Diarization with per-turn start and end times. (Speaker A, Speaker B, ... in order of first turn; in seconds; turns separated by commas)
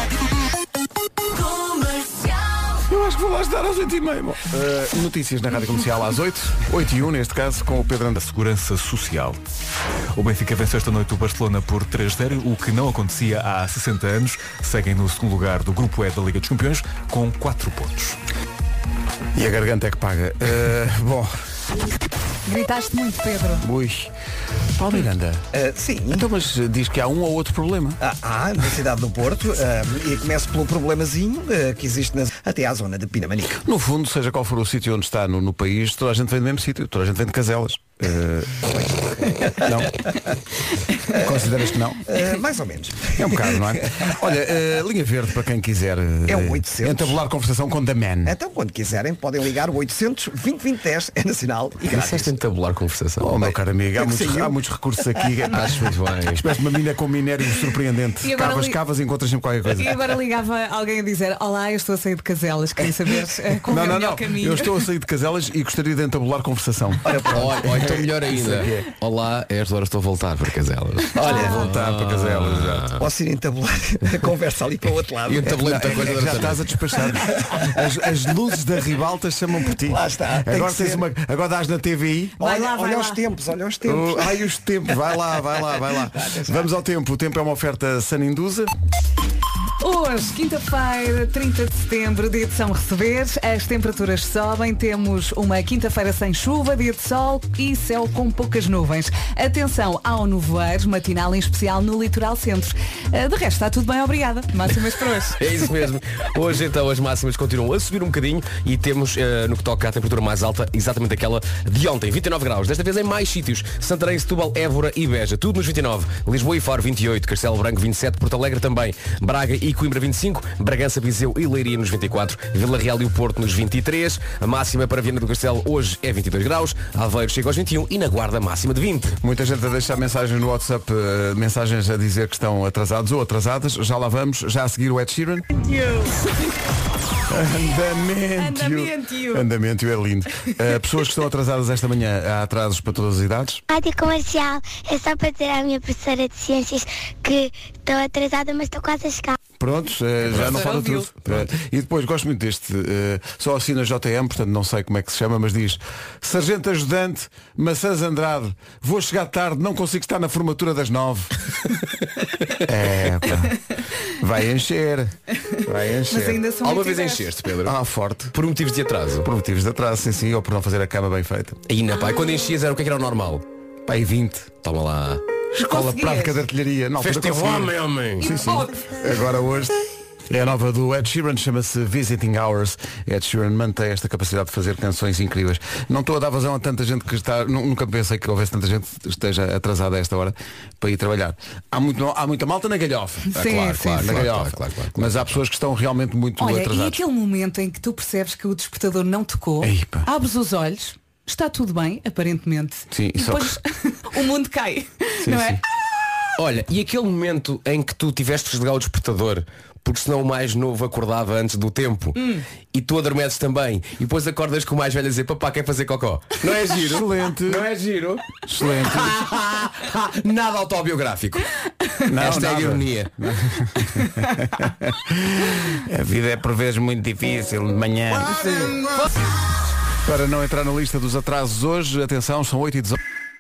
Speaker A: 2.9-8.2, Speaker B: 8.2-9.4, Speaker B: 10.2-18.2, Speaker A: 19.4-21.4, Speaker C: 22.5-23.6, Speaker A: 23.6-24.1, Speaker A: 24.8-25.4, Speaker D: 25.5-26.3, Speaker A: 26.1-28.0, Speaker D: 28.0-33.6, Speaker A: 33.6-38.6, Speaker D: 38.6-40.3, Speaker A: 39.6-40.0, Speaker A: 41.1-42.0, Speaker D: 41.1-44.1, Speaker A: 43.1-48.4, Speaker D: 46.3-47.2, Speaker D: 48.2-52.4, Speaker E: 51.8-53.4, Speaker A: 53.2-60.0, Speaker D: 53.4-55.5, Speaker E: 55.5-56.4, Speaker C: 58.2-58.8, Speaker C: 59.8-64.8, Speaker A: 63.7-68.9, Speaker D: 67.0-68.0, Speaker E: 67.3-73.0, Speaker D: 71.2-71.7, Speaker A: 71.2-73.0, Speaker C: 71.2-71.7, Speaker D: 73.0-76.5, Speaker E: 75.2-76.8, Speaker A: 75.4-82.4, Speaker D: 77.1-77.8, Speaker D: 79.8-81.0, Speaker C: 82.4-83.2, Speaker D: 82.4-84.4, Speaker A: 83.8-88.7, Speaker D: 85.5-86.7, Speaker C: 89.8-105.4, Speaker E: 105.4-129.2, Speaker A: 129.2-135.5, Speaker C: 135.6-136.2, Speaker A: 137.3-143.6, Speaker C: 138.4-139.5, Speaker F: 143.7-149.3, Speaker A: 149.6-161.3, Speaker C: 150.3-151.1, Speaker A: 162.6-163.6, Speaker A: 164.1-166.4, Speaker C: 166.1-167.3, Speaker E: 166.6-167.8, Speaker A: 167.6-168.3, Speaker E: 168.3-169.3, Speaker A: 169.2-171.6, Speaker E: 171.7-173.4, Speaker A: 173.9-174.5, Speaker E: 174.6-175.2, Speaker A: 175.5-179.8, Speaker C: 175.6-176.4, Speaker E: 177.0-178.3, Speaker C: 178.2-179.0, Speaker A: 180.3-193.4, Speaker C: 193.3-194.2, Speaker E: 193.4-195.3, Speaker A: 194.0-197.0, Speaker C: 196.4-205.6, Speaker A: 199.6-200.1, Speaker A: 202.9-203.6, Speaker A: 205.2-205.6, Speaker E: 206.4-212.2, Speaker C: 212.2-212.4, Speaker E: 212.7-221.4, Speaker A: 216.5-217.7, Speaker A: 218.5-219.2, Speaker A: 222.1-228.9, Speaker E: 222.1-223.1, Speaker A: 230.1-233.0